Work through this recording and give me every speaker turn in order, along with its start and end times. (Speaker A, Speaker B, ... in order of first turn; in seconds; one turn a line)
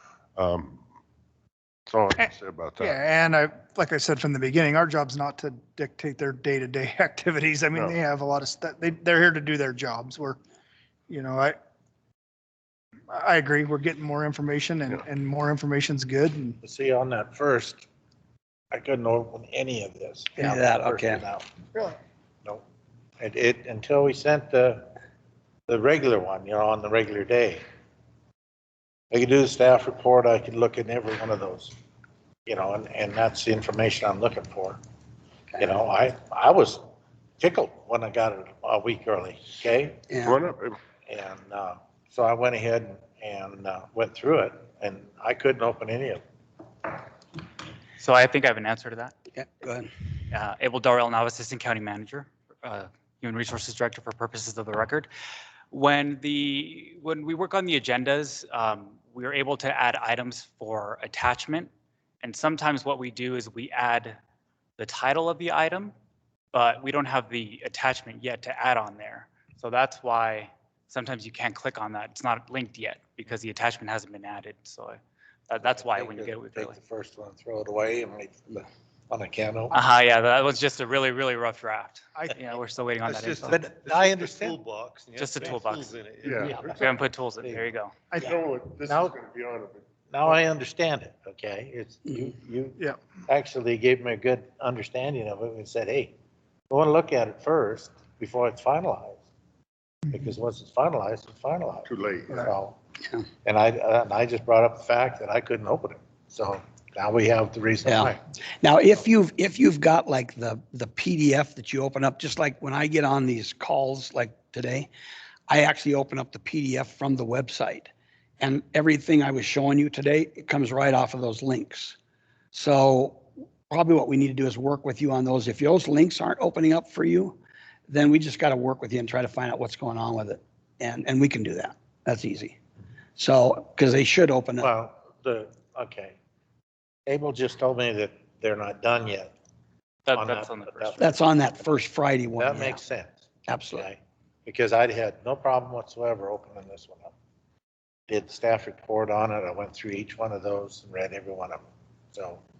Speaker A: 0.4-0.8
Speaker A: 1.9-3.0
Speaker B: 2.8-10.4
Speaker A: 7.7-8.0
Speaker B: 11.1-11.6
Speaker B: 13.1-16.6
Speaker C: 16.6-17.9
Speaker C: 18.7-21.4
Speaker D: 20.4-21.2
Speaker C: 23.2-24.9
Speaker C: 25.7-27.6
Speaker C: 29.1-31.8
Speaker C: 32.5-34.8
Speaker C: 35.6-36.8
Speaker C: 37.4-40.0
Speaker D: 40.1-40.4
Speaker A: 40.2-40.8
Speaker C: 41.1-46.2
Speaker E: 48.0-49.1
Speaker D: 49.3-49.9
Speaker E: 50.3-55.1
Speaker E: 55.7-61.7
Speaker E: 62.2-64.2
Speaker E: 64.8-65.9
Speaker E: 66.5-76.8
Speaker C: 75.6-79.8
Speaker E: 79.7-83.7
Speaker B: 82.2-82.6
Speaker F: 83.1-87.0
Speaker C: 83.5-84.6
Speaker E: 85.2-87.9
Speaker A: 86.2-86.6
Speaker C: 86.4-86.9
Speaker A: 88.2-89.8
Speaker C: 88.8-89.2
Speaker C: 90.1-96.1
Speaker C: 96.7-99.2
Speaker C: 100.1-102.8
Speaker A: 101.8-102.5
Speaker C: 103.4-108.2
Speaker D: 107.8-114.9
Speaker D: 115.5-122.0
Speaker D: 122.5-132.6
Speaker D: 133.2-134.7
Speaker C: 134.6-136.2
Speaker C: 137.1-139.3
Speaker E: 140.1-141.1
Speaker C: 140.1-141.7
Speaker D: 141.0-142.8
Speaker C: 142.3-147.1
Speaker D: 143.5-143.9
Speaker C: 148.1-151.6
Speaker C: 152.1-152.4